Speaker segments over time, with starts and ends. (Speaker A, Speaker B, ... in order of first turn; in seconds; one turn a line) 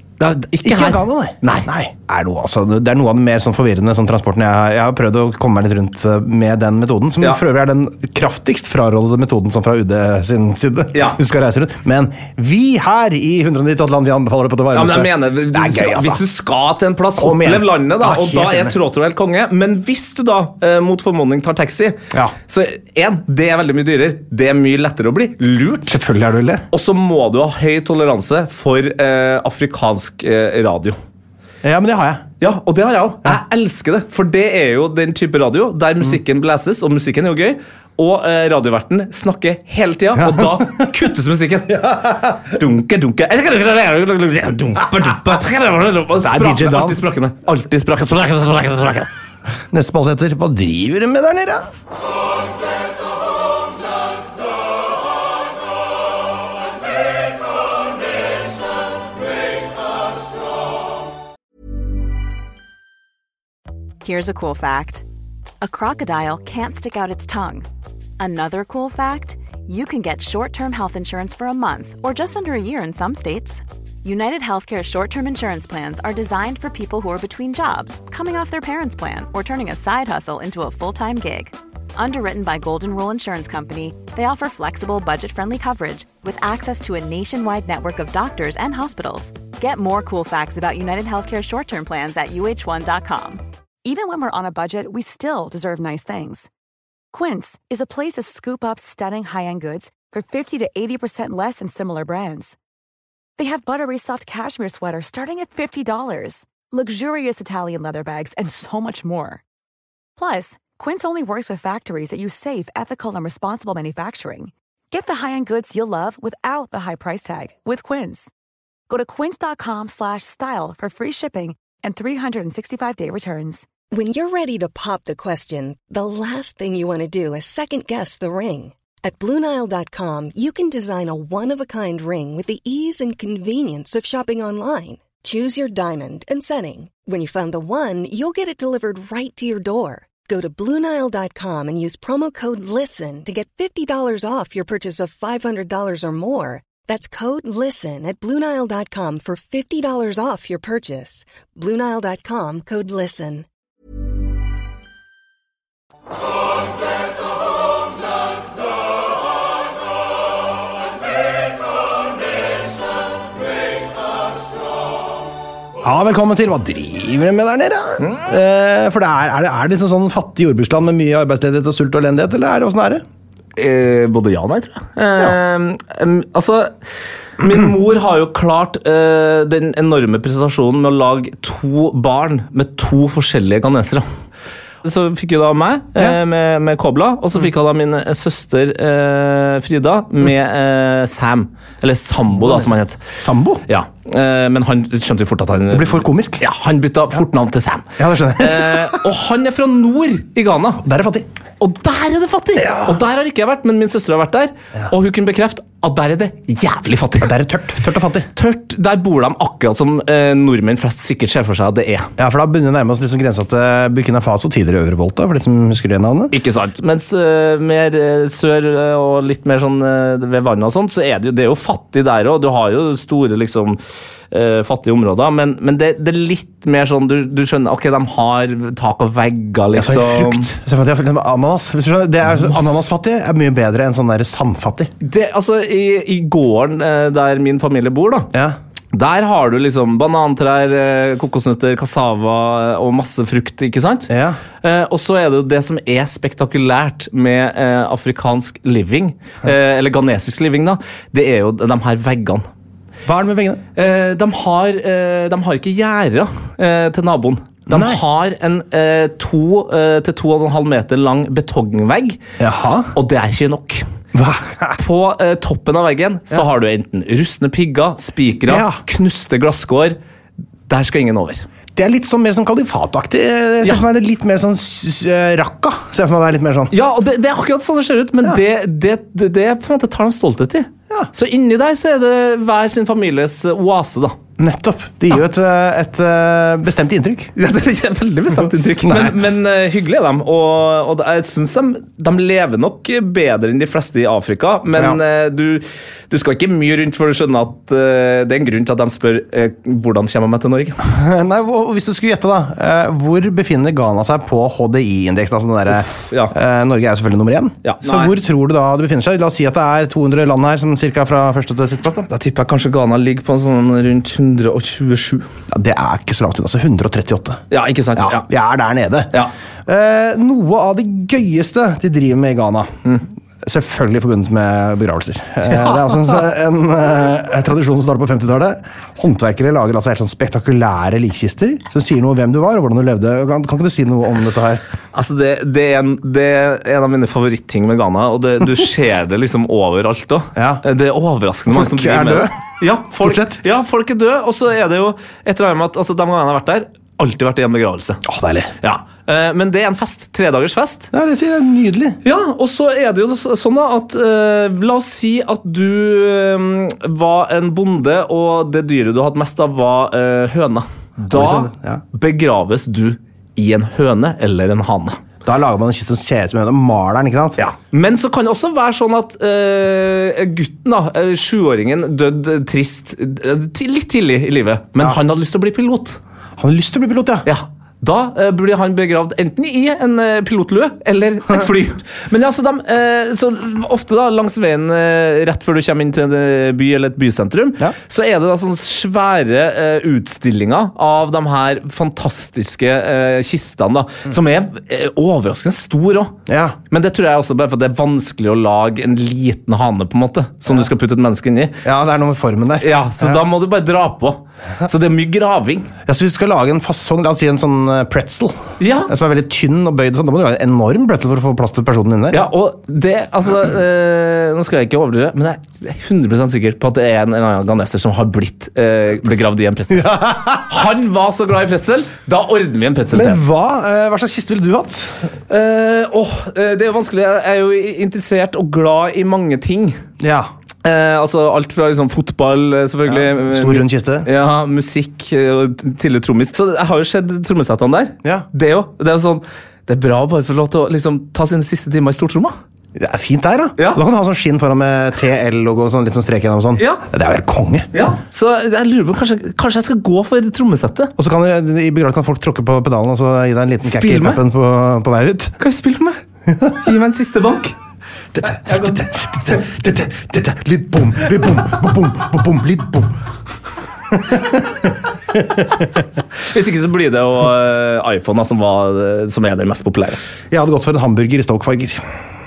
Speaker A: 0.2-1.7
Speaker B: 0.6-16.2
Speaker A: 10.9-11.2
Speaker A: 14.7-26.0
Speaker B: 17.2-18.7
Speaker B: 25.9-26.6
Speaker A: 26.7-31.0
Speaker B: 31.6-32.2
Speaker A: 32.4-49.1
Speaker B: 40.1-40.9
Speaker B: 41.7-42.5
Speaker B: 46.2-47.0
Speaker B: 49.7-51.7
Speaker C: 64.0-65.0
Speaker C: 65.6-67.7
Speaker C: 68.2-93.4
Speaker D: 93.8-96.5
Speaker D: 97.1-102.6
Speaker D: 103.4-109.4
Speaker D: 110.2-118.3
Speaker D: 118.9-123.7
Speaker E: 123.9-153.4
Speaker B: 165.8-173.0
Speaker A: 173.6-176.7
Speaker A: 177.4-184.1
Speaker A: 184.8-193.0
Speaker B: 192.4-193.6
Speaker A: 193.7-200.8
Speaker B: 195.7-196.4
Speaker B: 198.0-199.0
Speaker B: 200.8-201.3
Speaker A: 201.6-207.3
Speaker B: 202.6-203.0
Speaker B: 207.2-208.3
Speaker A: 208.3-212.1
Speaker B: 212.2-216.3
Speaker A: 216.3-223.8
Speaker A: 224.3-230.5
Speaker B: 229.7-234.9
Speaker A: 232.4-232.7
Speaker A: 235.0-238.3
Speaker B: 238.3-238.6
Speaker A: 238.9-244.1
Speaker B: 244.1-244.4
Speaker A: 244.6-252.4
Speaker B: 253.1-253.6
Speaker A: 253.8-262.2
Speaker B: 257.7-258.0
Speaker B: 262.4-262.9
Speaker A: 262.9-263.8
Speaker B: 264.1-264.8
Speaker A: 264.8-270.0
Speaker B: 268.4-268.8
Speaker A: 270.7-271.4
Speaker B: 271.8-276.7
Speaker A: 276.7-284.1
Speaker B: 284.4-287.3
Speaker A: 287.4-300.8
Speaker B: 288.8-289.2
Speaker B: 300.8-312.1
Speaker A: 306.1-306.3
Speaker A: 307.6-308.1
Speaker A: 312.1-315.2
Speaker B: 315.5-317.4
Speaker A: 317.5-318.2
Speaker B: 317.9-319.1
Speaker B: 319.6-334.6
Speaker A: 325.5-325.9
Speaker A: 334.9-348.0
Speaker B: 340.4-340.6
Speaker B: 341.5-342.3
Speaker B: 342.9-343.4
Speaker B: 348.0-348.5
Speaker A: 348.6-350.9
Speaker B: 350.9-352.0
Speaker A: 352.0-365.0
Speaker B: 361.0-361.8
Speaker B: 365.2-367.4
Speaker A: 367.4-376.0
Speaker B: 376.4-377.2
Speaker A: 377.2-396.1
Speaker B: 396.3-396.6
Speaker A: 396.7-401.6
Speaker B: 401.6-403.2
Speaker A: 402.6-405.7
Speaker B: 405.9-412.2
Speaker A: 408.6-408.9
Speaker A: 412.1-423.2
Speaker B: 419.7-420.5
Speaker B: 422.9-425.1
Speaker A: 425.3-429.8
Speaker B: 430.0-430.3
Speaker A: 430.6-442.4
Speaker B: 432.9-434.1
Speaker B: 442.8-447.7
Speaker A: 446.6-446.8
Speaker A: 447.7-450.9
Speaker B: 451.0-455.4
Speaker A: 453.6-454.2
Speaker A: 455.4-456.0
Speaker A: 456.5-457.5
Speaker B: 458.1-462.9
Speaker A: 458.3-459.4
Speaker B: 463.9-465.8
Speaker A: 466.2-470.0
Speaker B: 470.3-471.8